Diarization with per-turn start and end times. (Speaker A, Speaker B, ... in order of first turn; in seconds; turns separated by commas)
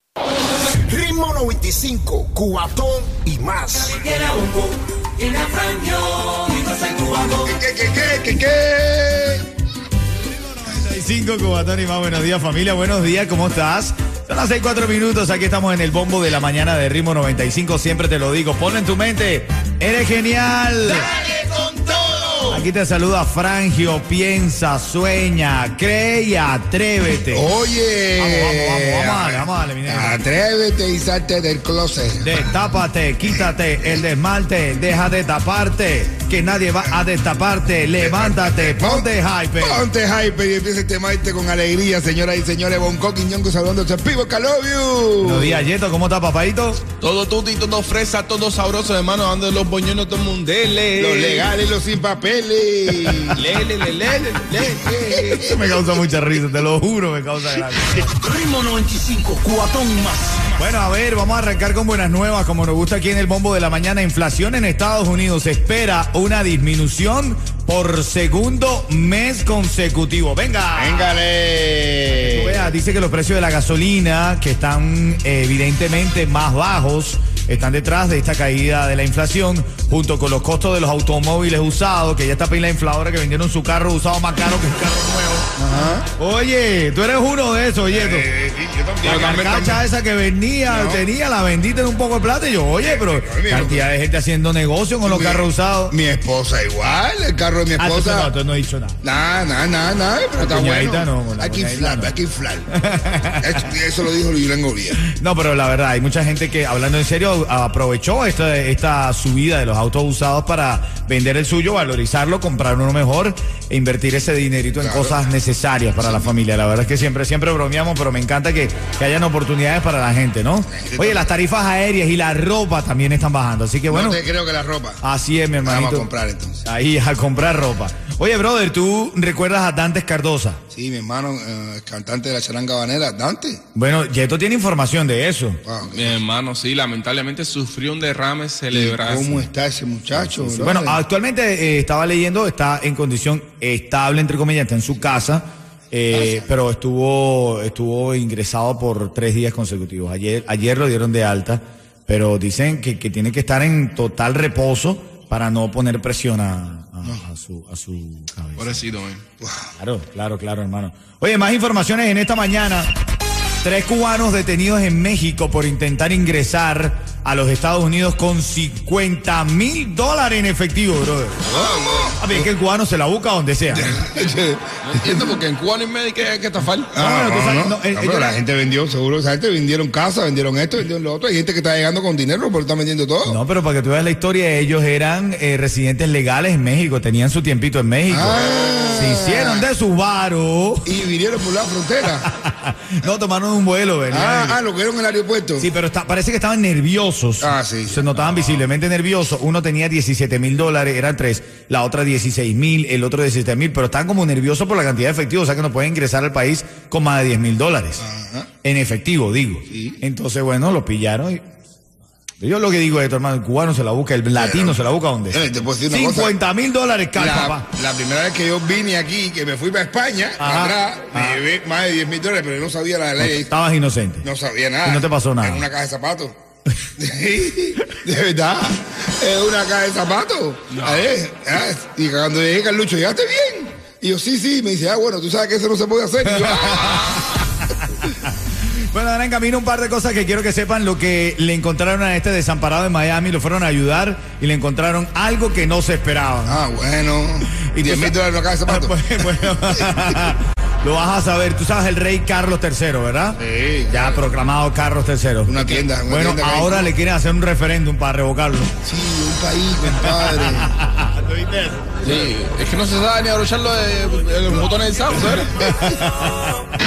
Speaker A: 0.7-7.3, Speaker B: 6.3-6.6, Speaker C: 7.4-9.5, Speaker B: 10.2-21.1, Speaker C: 21.1-22.3, Speaker B: 22.5-27.5, Speaker C: 27.3-32.5, Speaker B: 28.2-30.2, Speaker B: 32.2-39.8, Speaker C: 33.2-34.0, Speaker C: 38.0-45.7, Speaker B: 45.2-46.8, Speaker D: 47.0-51.5, Speaker C: 51.0-53.5, Speaker D: 53.3-55.0, Speaker C: 54.9-55.8, Speaker B: 54.9-58.1, Speaker A: 58.2-60.5, Speaker B: 60.6-71.2, Speaker C: 70.8-72.7, Speaker B: 72.1-85.5, Speaker C: 85.6-86.1, Speaker B: 86.2-88.3, Speaker C: 87.9-89.8, Speaker B: 89.0-96.0, Speaker D: 89.1-89.5, Speaker C: 90.7-91.1, Speaker C: 92.8-93.9, Speaker C: 95.0-98.3, Speaker B: 97.8-99.0, Speaker C: 99.0-102.7, Speaker B: 100.4-102.1, Speaker B: 102.7-103.6, Speaker C: 103.4-105.0, Speaker B: 105.0-124.2, Speaker C: 114.8-115.1, Speaker C: 116.0-116.4, Speaker C: 120.7-121.3, Speaker C: 123.9-125.0, Speaker B: 125.0-126.1, Speaker C: 125.6-126.7, Speaker B: 126.7-130.6, Speaker C: 130.7-133.6, Speaker B: 133.8-135.6, Speaker C: 135.6-136.2, Speaker D: 135.8-139.5, Speaker C: 138.7-141.0, Speaker B: 140.2-158.8, Speaker C: 146.1-146.5, Speaker D: 158.6-159.2, Speaker C: 159.4-159.7, Speaker B: 159.8-162.9, Speaker B: 163.6-171.6, Speaker C: 171.4-172.5, Speaker B: 172.2-174.0, Speaker C: 173.7-175.3, Speaker D: 174.8-176.9, Speaker C: 176.9-183.4, Speaker B: 177.0-178.4, Speaker B: 183.3-190.9, Speaker C: 188.1-189.7, Speaker C: 190.8-192.3, Speaker B: 192.3-194.6, Speaker C: 194.1-195.7, Speaker B: 195.6-208.0, Speaker C: 197.4-198.2, Speaker C: 208.0-208.5, Speaker B: 208.6-211.4, Speaker C: 209.7-210.0, Speaker B: 212.4-217.7, Speaker C: 214.3-216.3, Speaker C: 217.2-223.5, Speaker B: 220.4-221.4, Speaker B: 223.2-224.3, Speaker C: 224.2-226.3, Speaker B: 224.8-225.7, Speaker C: 227.0-237.2, Speaker D: 230.7-231.1, Speaker B: 236.3-237.5, Speaker B: 238.0-246.6, Speaker C: 246.4-250.3, Speaker B: 247.5-255.5, Speaker C: 253.4-254.3, Speaker C: 255.5-256.9, Speaker B: 256.1-258.8, Speaker C: 258.8-260.8, Speaker B: 259.9-262.1, Speaker D: 262.0-265.6, Speaker B: 265.5-266.7